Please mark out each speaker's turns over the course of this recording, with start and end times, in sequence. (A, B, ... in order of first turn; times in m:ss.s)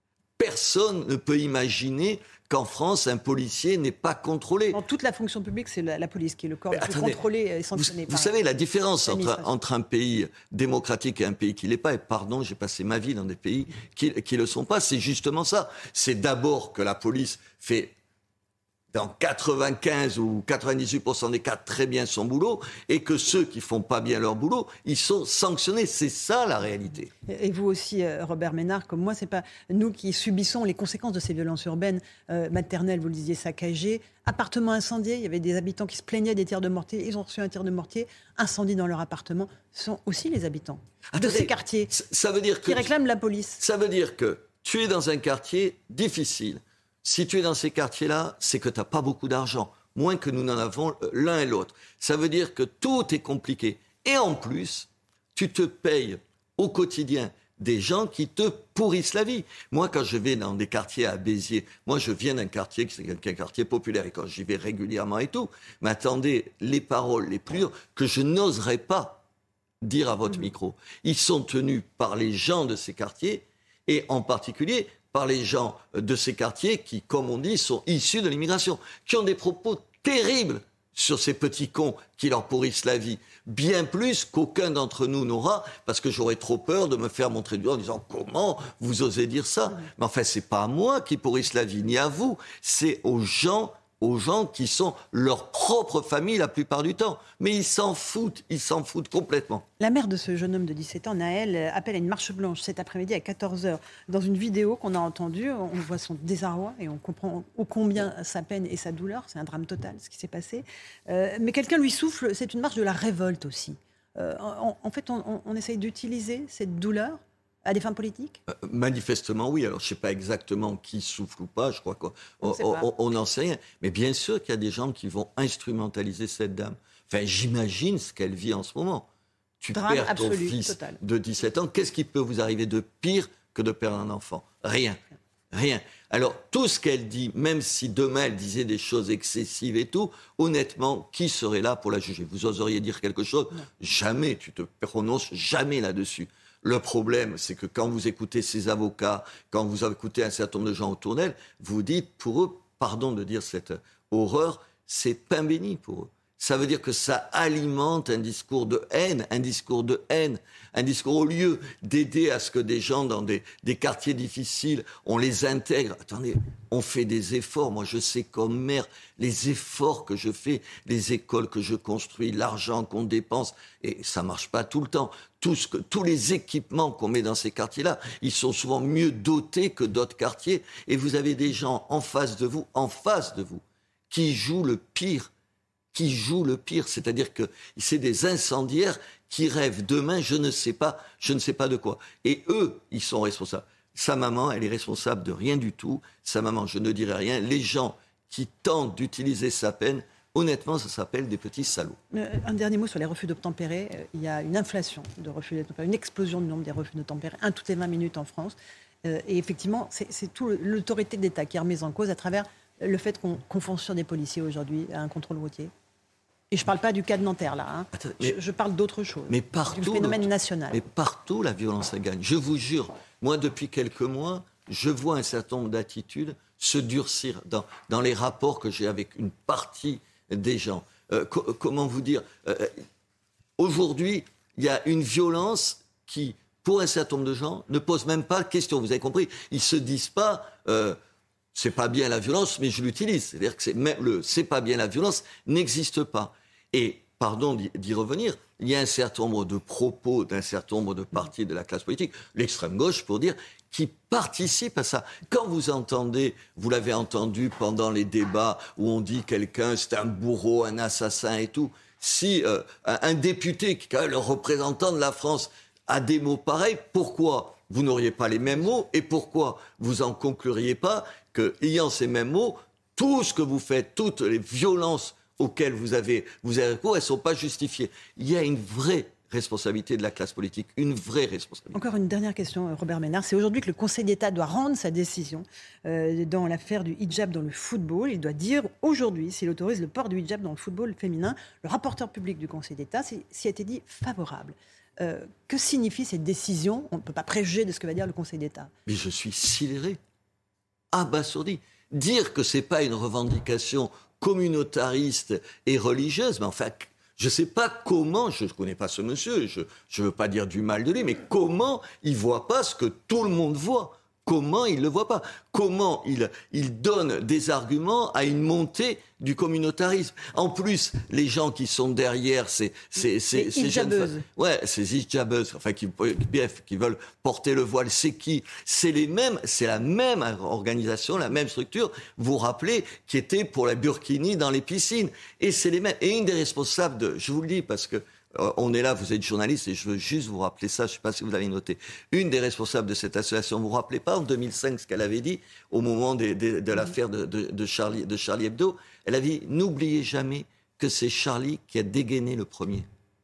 0:00.4-0:04.8 A
0:04.7-0:08.4 B
0:06.7-0:07.2 A
0:07.7-0:17.9 A
0:09.0-0:09.5 B
0:18.9-0:27.1 A
0:27.3-0:41.9 B
0:41.1-0:42.9 A
0:42.6-0:43.6 B
0:43.6-1:09.2 A
1:09.8-1:39.6 A
1:39.8-1:58.4 B
1:58.5-2:09.1 A
2:02.4-2:02.8 B
2:09.6-2:15.0 A
2:09.7-2:11.0 B
2:15.5-3:05.3 A
3:05.9-3:22.0 A
3:22.1-3:35.7 B
3:36.5-3:40.8 B
3:37.9-3:38.4 A
3:39.3-3:52.7 A
3:53.6-4:01.0 A
4:01.5-4:41.8 A
4:41.7-4:58.7 B
4:58.9-5:00.0 A
5:00.9-5:52.9 A
5:23.3-5:24.2 B